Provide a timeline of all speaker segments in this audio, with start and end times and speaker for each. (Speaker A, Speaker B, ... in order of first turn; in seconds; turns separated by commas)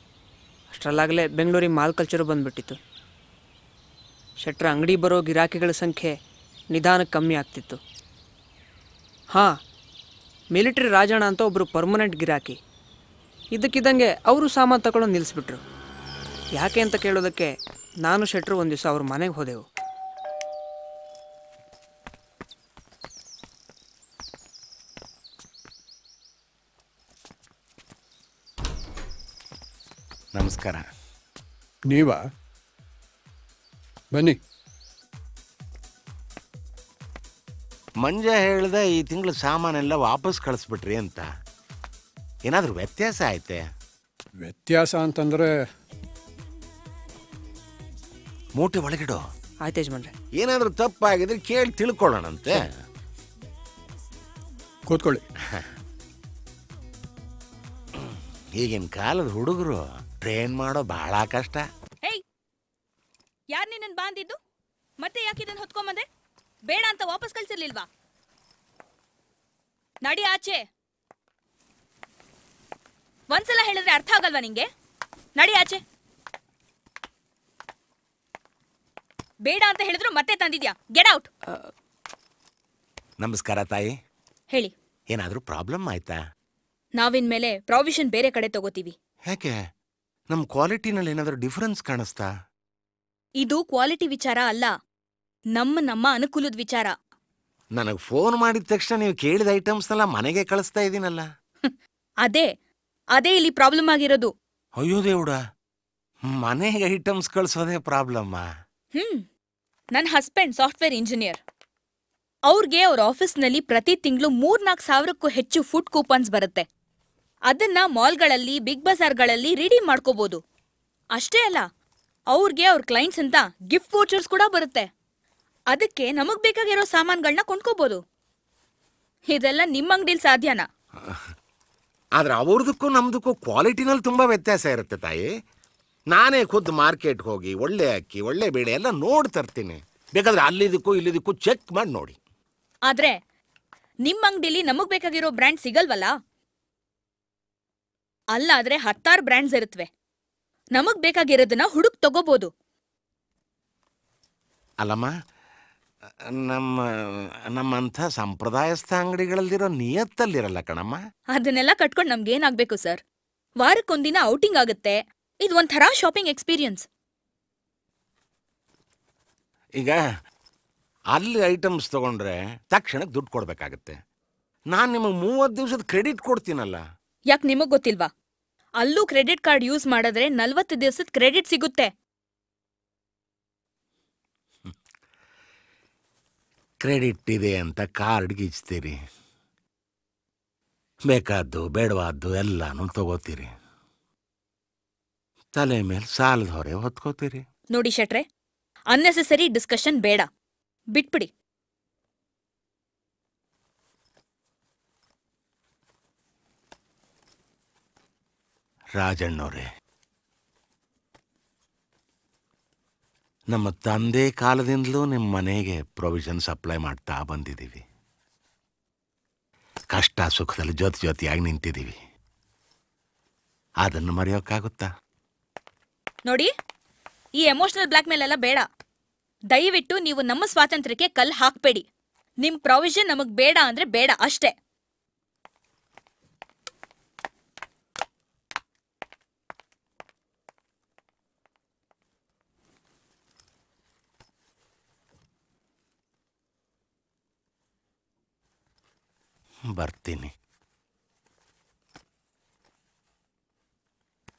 Speaker A: 0.7-2.8, Speaker A: 4.4-6.2, Speaker A: 6.7-7.8, Speaker A: 9.3-9.6, Speaker A: 10.5-12.6, Speaker A: 13.5-15.6, Speaker A: 16.6-19.6, Speaker B: 30.3-30.8, Speaker C: 31.9-32.2, Speaker B: 38.0-41.3, Speaker B: 42.5-43.6, Speaker C: 44.4-45.6, Speaker B: 48.5-49.2, Speaker A: 49.6-50.1, Speaker B: 50.4-52.7, Speaker C: 54.9-55.2, Speaker B: 58.0-61.6, Speaker D: 63.5-64.4, Speaker D: 65.0-66.0, Speaker D: 66.7-67.8, Speaker D: 70.0-70.7, Speaker D: 73.3-74.7, Speaker D: 75.3-75.8, Speaker D: 79.4-81.3, Speaker B: 83.2-83.9, Speaker B: 85.1-86.2, Speaker D: 87.0-88.9, Speaker B: 89.3-89.6, Speaker B: 90.3-92.3, Speaker D: 93.4-94.7, Speaker D: 95.5-96.9, Speaker B: 97.8-101.2, Speaker D: 101.6-102.5, Speaker D: 103.1-104.3, Speaker B: 104.8-105.4, Speaker B: 106.3-108.5, Speaker D: 108.9-109.2, Speaker D: 109.9-111.4, Speaker D: 112.5-116.7, Speaker D: 117.5-120.4, Speaker D: 121.1-121.7, Speaker D: 122.3-124.9, Speaker D: 125.7-128.0, Speaker D: 129.3-130.7, Speaker B: 131.0-131.2, Speaker B: 132.2-135.2, Speaker B: 136.1-142.2, Speaker D: 142.9-143.2, Speaker D: 144.0-146.1, Speaker D: 148.3-149.9, Speaker D: 150.7-152.5, Speaker B: 154.8-155.1, Speaker B: 156.3-161.0, Speaker D: 161.3-163.0, Speaker D: 163.6-166.8, Speaker B: 169.8-170.0, Speaker B: 171.1-174.0, Speaker B: 174.7-176.8, Speaker D: 177.3-178.1, Speaker D: 178.8-181.9, Speaker B: 186.8-189.0, Speaker B: 191.1-193.5, Speaker B: 195.5-197.4, Speaker D: 197.7-198.2, Speaker D: 198.9-200.3, Speaker D: 200.9-201.3, Speaker B: 209.0-209.7, Speaker B: 213.5-217.8, Speaker B: 219.9-222.0, Speaker B: 223.8-224.9, Speaker D: 226.2-226.5, Speaker D: 227.4-228.7, Speaker D: 229.5-231.8, Speaker D: 232.4-234.5, Speaker B: 249.7-250.3